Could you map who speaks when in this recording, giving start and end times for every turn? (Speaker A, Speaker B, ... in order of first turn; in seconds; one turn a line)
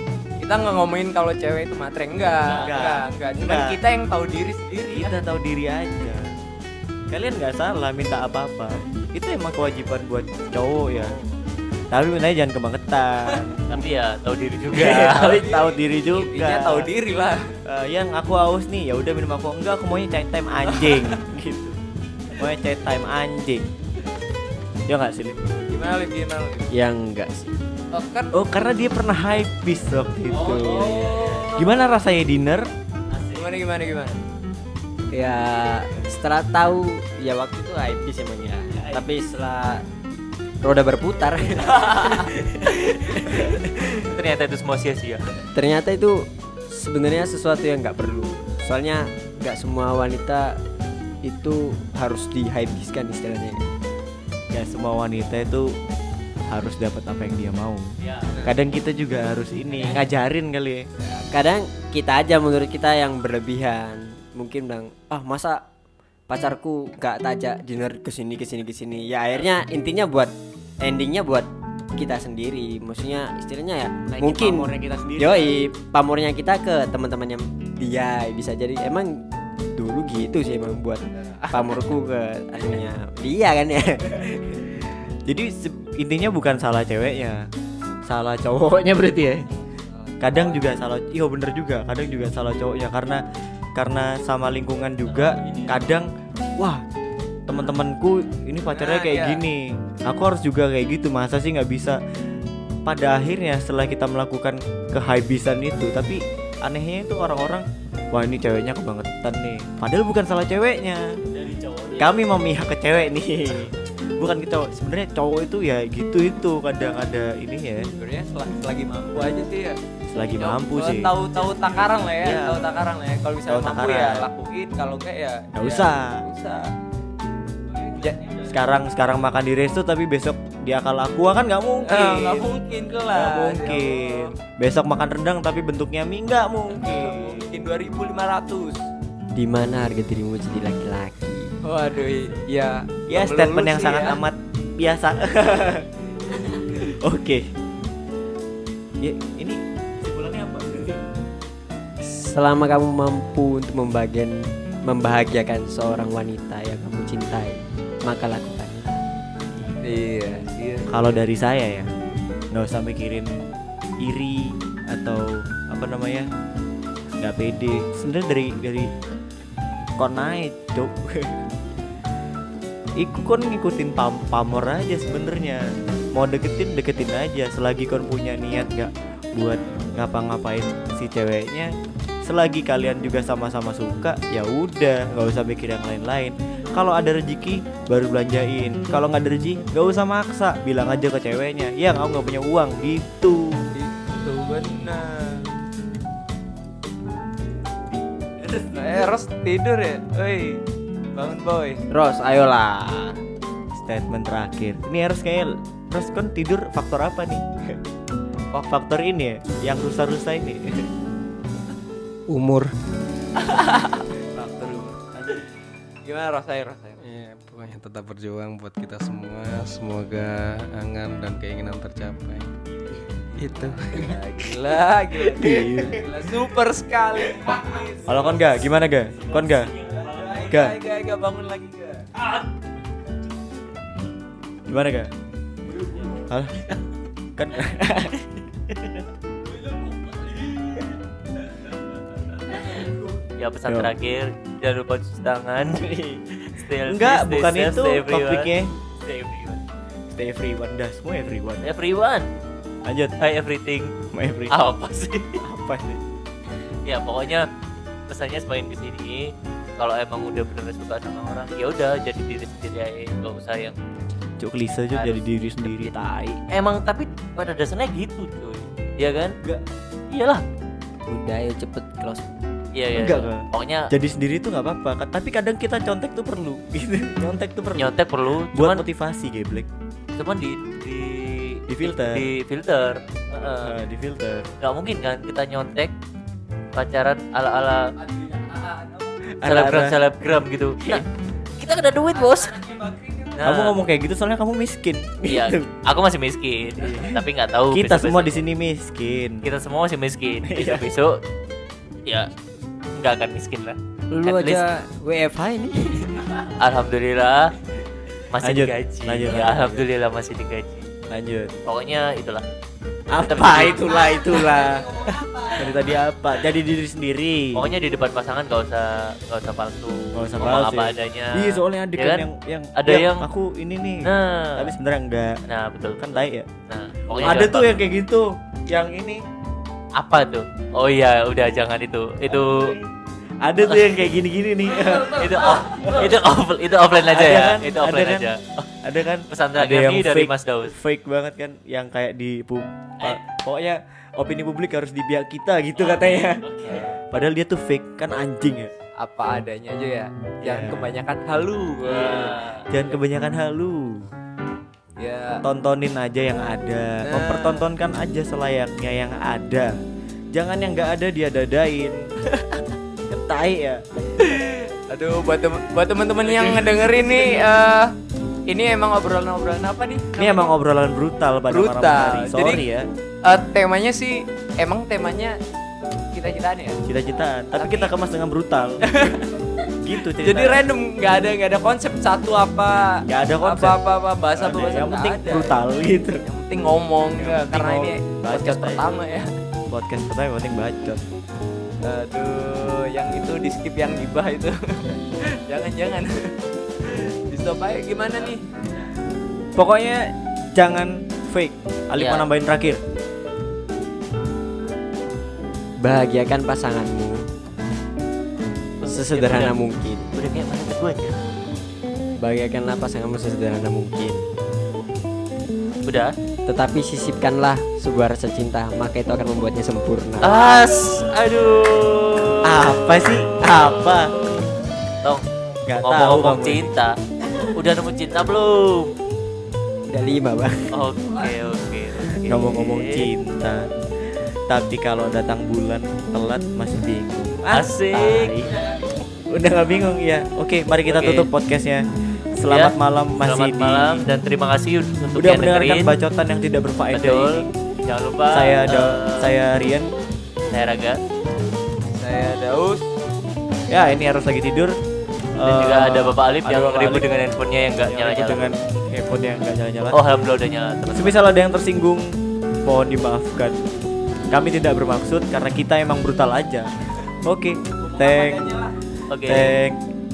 Speaker A: 0.4-5.1
Speaker B: 2.4-3.0
Speaker C: 2.6-3.8
Speaker C: 4.9-6.3
Speaker C: 7.1-11.2
Speaker C: 11.9-13.5
Speaker B: 13.7-15.5
Speaker C: 14.7-16.9
Speaker A: 15.2-17.6
Speaker C: 17.7-21.8
Speaker A: 20.7-21.1
Speaker C: 22.4-23.7
Speaker C: 24.9-25.4
Speaker A: 25.5-26.7
Speaker D: 26.7-27.6
Speaker A: 27.9-28.4
Speaker C: 28.3-32.7
Speaker B: 30.3-31.6
Speaker A: 30.4-31.7
Speaker B: 33.1-33.4
Speaker A: 33.3-34.2
Speaker D: 35.1-39.8
Speaker D: 40.6-42.3
Speaker B: 41.8-45.4
Speaker D: 45.5-50.6
Speaker D: 51.2-53.6
Speaker C: 54.5-55.7
Speaker C: 56.5-57.9
Speaker B: 58.0-58.3
Speaker C: 58.4-60.9
Speaker D: 61.1-65.7
Speaker D: 66.3-79.2
Speaker C: 74.1-75.5
Speaker D: 79.8-84.3
Speaker A: 81.2-81.7
Speaker C: 84.2-84.7
Speaker C: 85.3-87.5
Speaker C: 88.1-89.5
Speaker A: 89.9-90.7
Speaker C: 90.2-93.2
Speaker C: 93.8-96.8
Speaker B: 95.2-95.8
Speaker C: 97.5-102.0
Speaker A: 98.7-99.4
Speaker C: 102.8-111.2
Speaker B: 111.3-112.2
Speaker C: 112.0-117.9
Speaker A: 118.0-119.8
Speaker C: 120.1-121.2
Speaker A: 120.4-126.7
Speaker C: 122.2-122.7
Speaker C: 123.5-124.3
Speaker C: 125.6-126.2
Speaker A: 127.8-128.4
Speaker C: 128.4-132.5
Speaker A: 131.8-134.3
Speaker C: 133.1-137.5
Speaker A: 136.8-138.9
Speaker D: 139.4-141.6
Speaker A: 141.6-144.2
Speaker C: 143.1-145.9
Speaker C: 146.8-147.5
Speaker C: 149.0-151.0
Speaker D: 152.0-159.0
Speaker A: 159.8-161.2
Speaker C: 160.9-161.9
Speaker C: 162.5-163.4
Speaker C: 164.0-166.3
Speaker C: 167.2-168.9
Speaker C: 170.0-171.5
Speaker C: 173.0-181.7
Speaker C: 182.2-193.6
Speaker A: 193.7-195.5
Speaker A: 198.6-200.6
Speaker A: 201.2-201.8
Speaker D: 201.9-203.2
Speaker C: 203.7-207.8
Speaker C: 208.6-210.9
Speaker E: 212.3-212.7
Speaker A: 213.4-215.4
Speaker A: 216.0-217.0
Speaker E: 217.0-222.5
Speaker E: 223.4-224.2
Speaker A: 223.9-228.5
Speaker C: 225.3-226.2
Speaker C: 228.1-229.8
Speaker A: 229.8-232.1
Speaker C: 230.5-230.8
Speaker C: 234.7-235.1
Speaker C: 236.1-236.8
Speaker C: 237.4-238.2
Speaker B: 239.9-240.8
Speaker B: 242.3-245.8
Speaker C: 243.7-243.9
Speaker C: 245.7-246.2
Speaker B: 246.4-248.5
Speaker C: 246.9-248.7
Speaker B: 249.0-249.6
Speaker C: 250.1-251.7
Speaker B: 251.6-252.3
Speaker C: 252.8-253.2
Speaker B: 253.2-254.0
Speaker C: 254.1-254.6
Speaker B: 254.5-255.4
Speaker C: 255.4-256.0
Speaker B: 256.9-257.5
Speaker B: 258.1-263.8
Speaker C: 264.4-266.4
Speaker B: 264.9-269.4
Speaker B: 270.1-270.4
Speaker D: 271.1-272.4
Speaker B: 272.8-273.9
Speaker C: 272.9-278.0
Speaker B: 277.8-278.9
Speaker C: 278.5-279.7
Speaker B: 280.2-283.8
Speaker C: 281.7-282.3
Speaker C: 283.6-284.5
Speaker B: 284.6-285.9
Speaker B: 286.8-287.9
Speaker A: 288.0-289.2
Speaker C: 289.3-290.0
Speaker B: 289.4-291.1
Speaker B: 291.6-292.6
Speaker A: 292.1-293.4
Speaker B: 293.4-293.8
Speaker C: 293.4-295.7
Speaker B: 295.3-298.4
Speaker C: 296.8-299.5
Speaker B: 299.4-301.2
Speaker C: 300.4-300.9
Speaker B: 302.1-302.3
Speaker B: 302.9-304.6
Speaker D: 304.1-306.3
Speaker B: 306.4-307.6
Speaker B: 308.3-310.9
Speaker C: 308.4-309.8
Speaker C: 311.1-311.6
Speaker B: 311.6-312.4
Speaker C: 313.1-317.7
Speaker B: 313.2-314.6
Speaker B: 317.6-323.3
Speaker C: 320.1-325.4
Speaker B: 324.0-324.7
Speaker B: 325.5-326.2
Speaker C: 326.0-326.5
Speaker B: 326.7-327.8
Speaker C: 327.1-329.2
Speaker B: 330.0-332.8
Speaker C: 332.3-332.9
Speaker C: 333.4-336.2
Speaker B: 333.7-334.0
Speaker B: 334.9-338.7
Speaker C: 337.0-338.3
Speaker C: 338.8-348.7
Speaker B: 339.3-340.8
Speaker B: 345.8-346.9
Speaker A: 349.0-352.9
Speaker C: 350.4-350.9
Speaker B: 351.9-352.6
Speaker C: 352.7-354.1
Speaker A: 355.0-355.4
Speaker C: 355.4-359.7
Speaker A: 357.0-357.7
Speaker C: 360.3-364.3
Speaker A: 364.2-367.9
Speaker C: 366.3-366.8
Speaker A: 368.5-370.5
Speaker C: 370.2-372.9
Speaker A: 371.5-372.6
Speaker A: 373.2-375.4
Speaker A: 376.1-376.8
Speaker C: 376.9-379.2
Speaker A: 377.6-377.9
Speaker A: 378.8-379.3
Speaker C: 379.8-380.6
Speaker A: 380.1-385.6
Speaker C: 383.1-383.8
Speaker C: 384.4-386.2
Speaker A: 386.2-389.3
Speaker C: 387.2-388.9
Speaker C: 389.7-391.1
Speaker A: 391.8-398.4
Speaker C: 399.6-402.8
Speaker B: 402.0-402.2
Speaker D: 405.8-407.3
Speaker B: 408.8-409.6
Speaker D: 408.8-410.1
Speaker B: 410.1-411.2
Speaker D: 412.2-414.3
Speaker B: 415.9-416.1
Speaker D: 416.5-420.4
Speaker B: 420.2-422.8
Speaker C: 422.4-424.1
Speaker B: 423.4-423.7
Speaker C: 425.7-426.7
Speaker B: 425.8-428.9
Speaker D: 429.9-430.8
Speaker B: 430.7-433.1
Speaker C: 432.3-438.6
Speaker B: 437.5-438.5
Speaker C: 439.3-444.1
Speaker B: 440.9-441.3
Speaker B: 442.5-445.9
Speaker C: 445.2-447.5
Speaker B: 446.9-449.3
Speaker C: 448.3-449.9
Speaker B: 450.5-451.0
Speaker A: 451.9-452.9
Speaker C: 453.7-454.8
Speaker C: 455.4-457.1
Speaker B: 455.4-458.5
Speaker C: 457.9-460.0
Speaker B: 459.9-461.2
Speaker C: 460.9-463.6
Speaker C: 464.3-466.7
Speaker C: 467.2-468.6
Speaker A: 467.8-468.8
Speaker B: 469.1-469.6
Speaker C: 469.2-469.8